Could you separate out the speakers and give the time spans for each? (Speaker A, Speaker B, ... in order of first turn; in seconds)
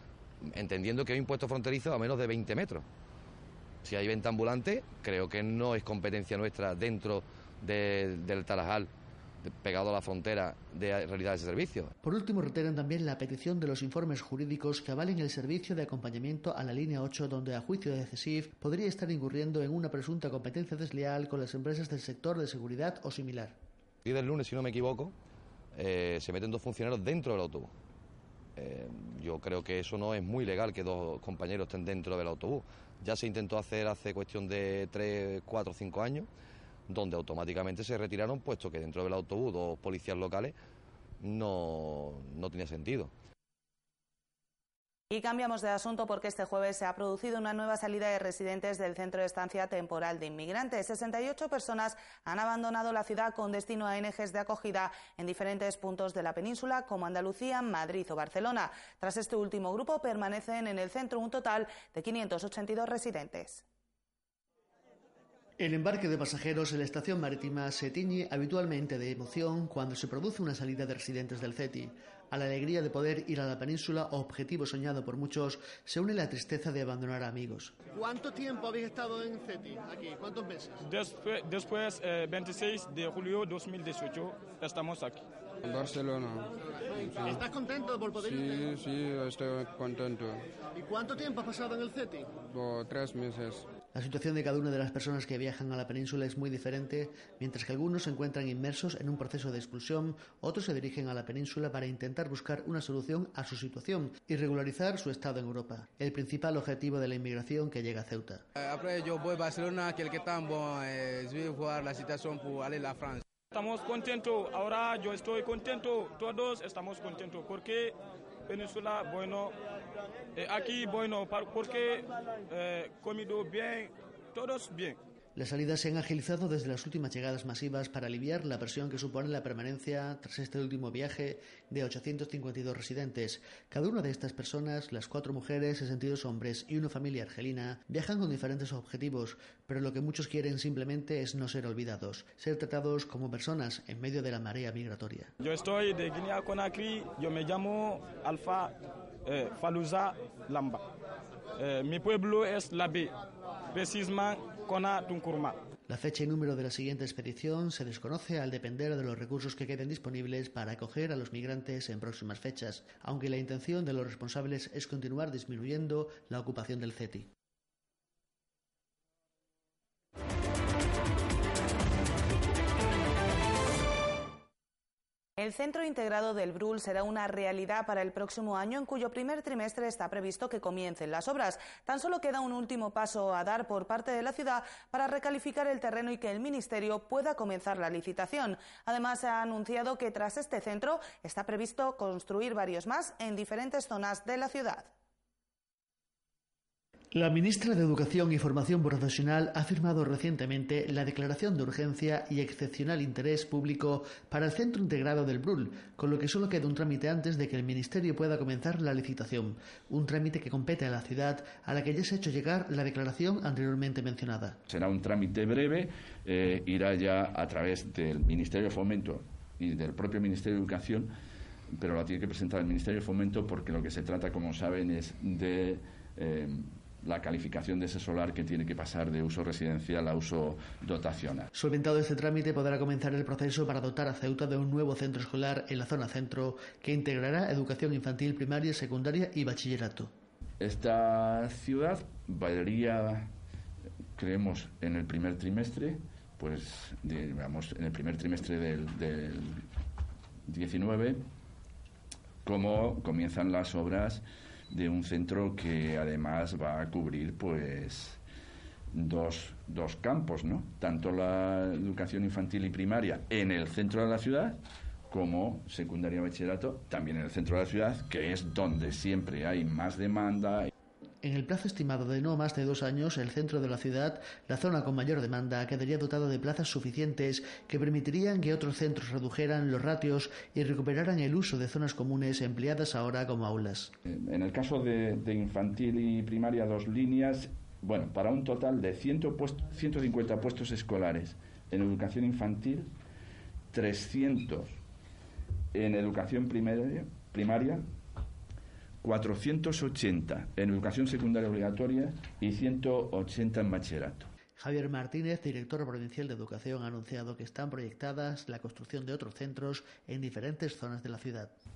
Speaker A: 0.4-2.9, 3.8-8.9, 9.5-11.9, 24.1-25.1, 25.8-27.7, 28.6-36.3, 36.9-40.5, 41.2-43.1
Speaker B: 12.0-23.6, 65.6-77.8, 93.9-108.5, 125.4-145.3, 155.9-167.3, 197.1-214.6, 231.6-240.1, 271.2-283.9, 304.6-311.5
Speaker C: 45.1-63.6, 175.4-194.9
Speaker D: 77.9-80.8, 87.0-88.8, 90.8-92.4
Speaker E: 80.8-85.2, 113.5-118.0, 118.5-119.5, 120.3-125.0, 145.4-150.8, 151.6-153.1, 153.7-155.6
Speaker F: 85.7-87.4, 88.2-90.4, 92.4-93.7
Speaker G: 108.6-113.2
Speaker H: 214.7-221.1, 221.8-231.5, 240.6-243.3, 244.2-249.6, 250.5-251.2, 252.4-258.2, 258.9-264.6, 265.1-270.7, 284.1-292.9, 293.7-294.8, 295.7-297.9, 299.0-304.3